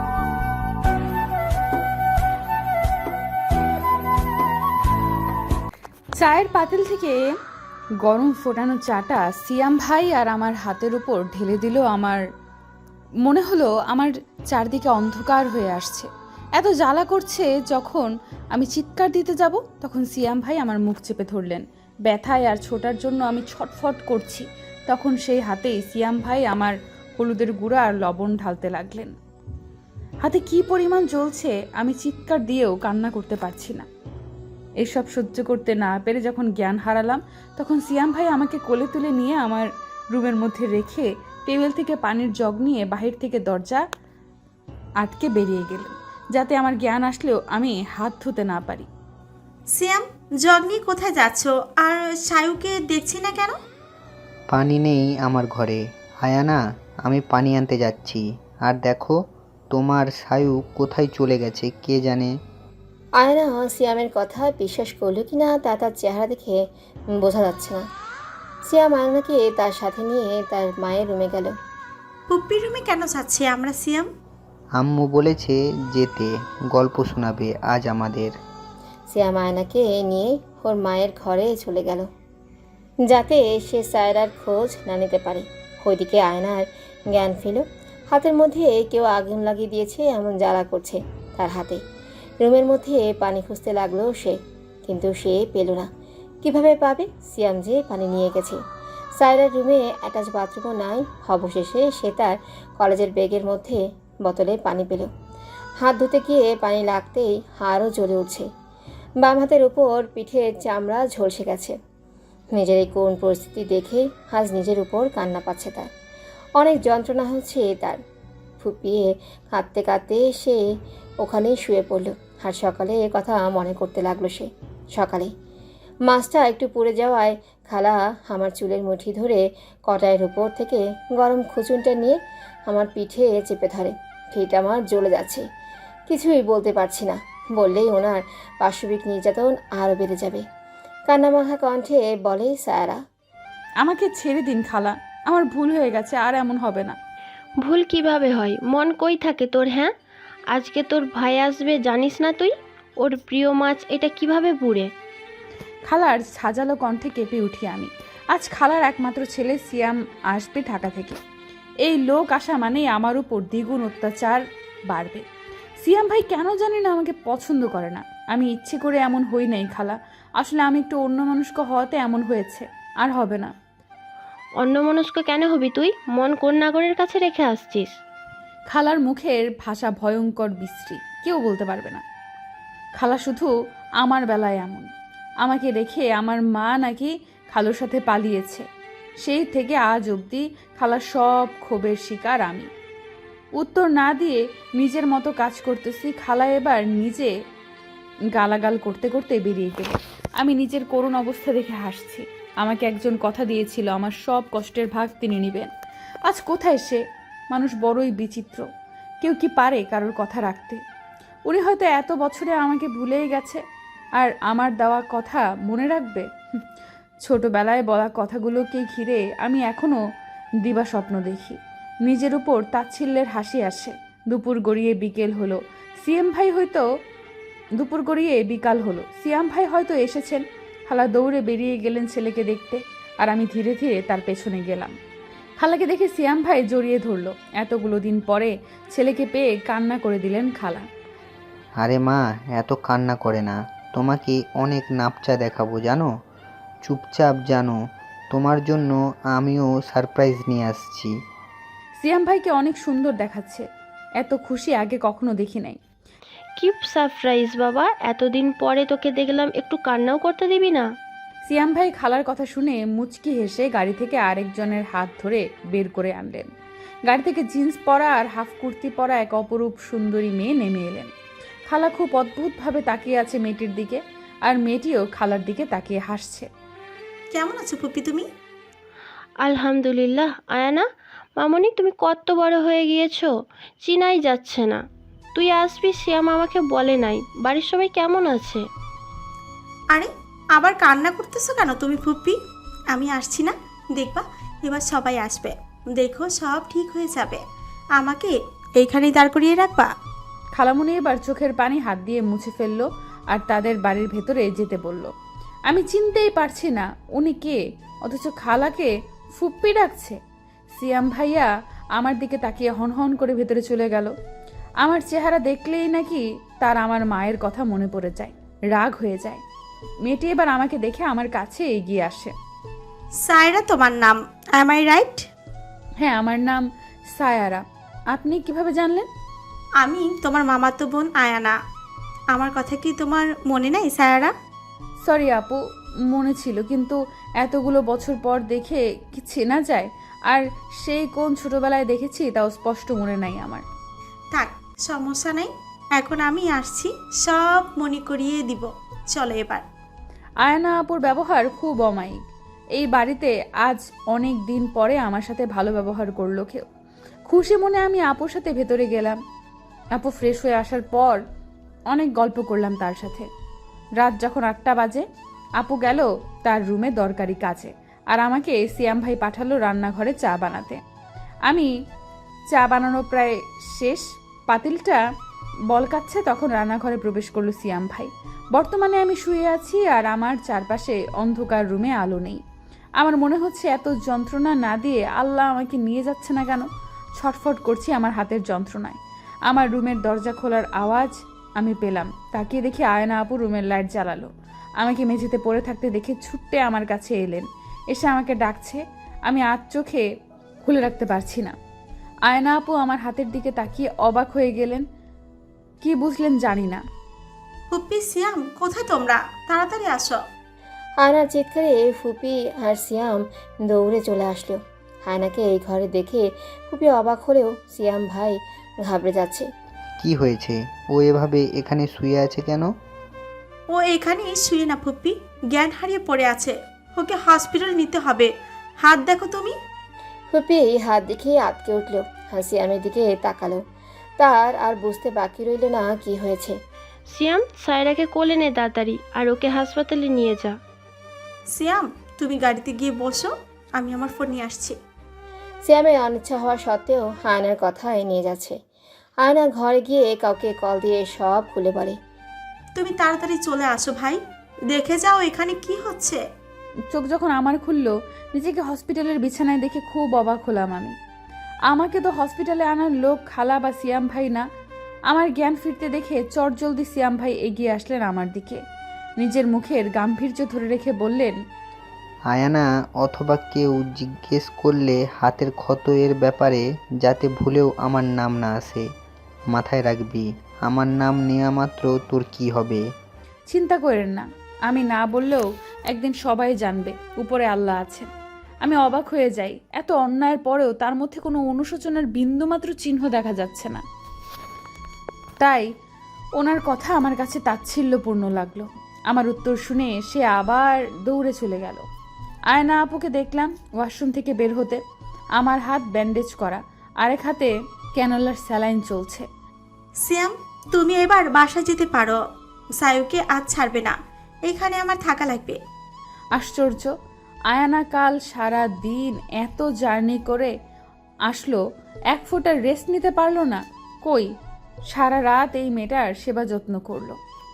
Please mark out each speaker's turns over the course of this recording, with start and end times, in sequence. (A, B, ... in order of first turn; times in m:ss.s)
0:06.2-0:07.2 A
0:08.0-0:12.2 A
0:13.2-0:29.1 A
0:30.2-0:33.8 A
0:34.8-0:43.8 A
0:45.0-0:48.9 A
0:49.7-0:53.6 B
0:54.5-0:59.2 C
0:59.7-1:02.3 C
1:03.2-1:06.6 D
1:07.2-1:07.8 D
1:08.7-1:11.5 D
1:12.3-1:14.1 B
1:14.8-1:18.3 C
1:19.1-1:22.0 D
1:23.0-1:31.8 D
1:32.4-1:35.9 D
1:36.4-1:38.6 D
1:39.2-1:45.1 D
1:45.8-1:48.4 D
1:49.2-1:51.7 D
1:52.5-1:55.9 D
1:56.6-1:58.0 D
1:58.6-2:00.6 D
2:01.2-2:05.3 D
2:06.1-2:15.4 D
2:16.1-2:20.4 D
2:21.1-2:23.0 D
2:23.8-2:27.0 A
2:27.6-2:29.9 E
2:30.5-2:34.9 E
2:35.9-2:41.2 A
2:41.8-2:45.2 A
2:45.8-2:53.5 A
2:54.6-2:57.9 E
2:58.7-3:02.0 A
3:03.0-3:03.5 A
3:04.0-3:04.9 A
3:05.4-3:08.6 A
3:09.2-3:12.7 A
3:13.6-3:17.3 A
3:18.3-3:25.7 A
3:26.3-3:28.7 A
3:29.2-3:30.8 A
3:31.5-3:33.6 A
3:34.2-3:36.3 A
3:37.2-3:40.0 A
3:40.6-3:46.8 A
3:47.8-3:54.9 A
3:55.6-4:00.8 A
4:01.8-4:06.0 C
4:06.8-4:07.8 C
4:08.3-4:11.1 C
4:12.0-4:13.6 A
4:14.2-4:15.8 A
4:16.6-4:20.8 E
4:21.4-4:26.5 A
4:27.1-4:31.1 A
4:31.7-4:36.5 A
4:37.3-4:38.3 B
4:39.4-4:40.8 E
4:41.4-4:43.3 E
4:43.8-4:44.8 E
4:45.4-4:48.6 E
4:49.9-4:52.4 B
4:52.9-4:57.4 B
4:58.0-4:59.9 B
5:00.6-5:05.1 A
5:05.7-5:10.2 A
5:10.7-5:14.1 A
5:14.8-5:19.4 A
5:20.0-5:22.3 A
5:23.2-5:25.3 B
5:26.0-5:29.1 A
5:29.8-5:31.6 B
5:32.3-5:34.3 B
5:35.1-5:43.6 A
5:44.3-5:49.6 B
5:50.4-5:52.2 A
5:52.8-5:56.6 A
5:57.3-5:59.2 A
6:00.0-6:01.2 A
6:01.9-6:03.3 A
6:04.0-6:05.0 A
6:05.6-6:10.8 A
6:12.5-6:15.0 A
6:15.7-6:22.4 A
6:23.0-6:40.0 A
6:40.6-6:41.5 A
6:42.3-6:44.8 A
6:45.8-6:46.8 A
6:47.7-6:50.2 B
6:51.0-6:59.5 D
7:00.0-7:02.7 C
7:03.7-7:08.3 B
7:08.8-7:09.5 B
7:10.3-7:13.6 D
7:14.2-7:16.6 D
7:17.1-7:20.5 E
7:21.5-7:24.8 B
7:25.6-7:28.6 D
7:29.2-7:32.0 D
7:32.8-7:34.2 B
7:34.7-7:36.2 B
7:36.9-7:40.9 A
7:41.7-7:44.4 A
7:45.1-7:48.6 A
7:49.2-7:51.4 A
7:52.3-7:58.8 C
7:59.5-8:02.8 C
8:03.5-8:08.1 A
8:08.6-8:13.8 A
8:15.4-8:15.7 A
8:16.4-8:21.8 A
8:22.5-8:24.8 A
8:25.4-8:29.2 A
8:30.0-8:32.2 B
8:32.8-8:34.0 B
8:34.5-8:35.6 B
8:36.3-8:36.9 A
8:37.5-8:40.5 A
8:41.3-8:41.6 A
8:42.1-8:44.3 A
8:44.9-8:47.2 A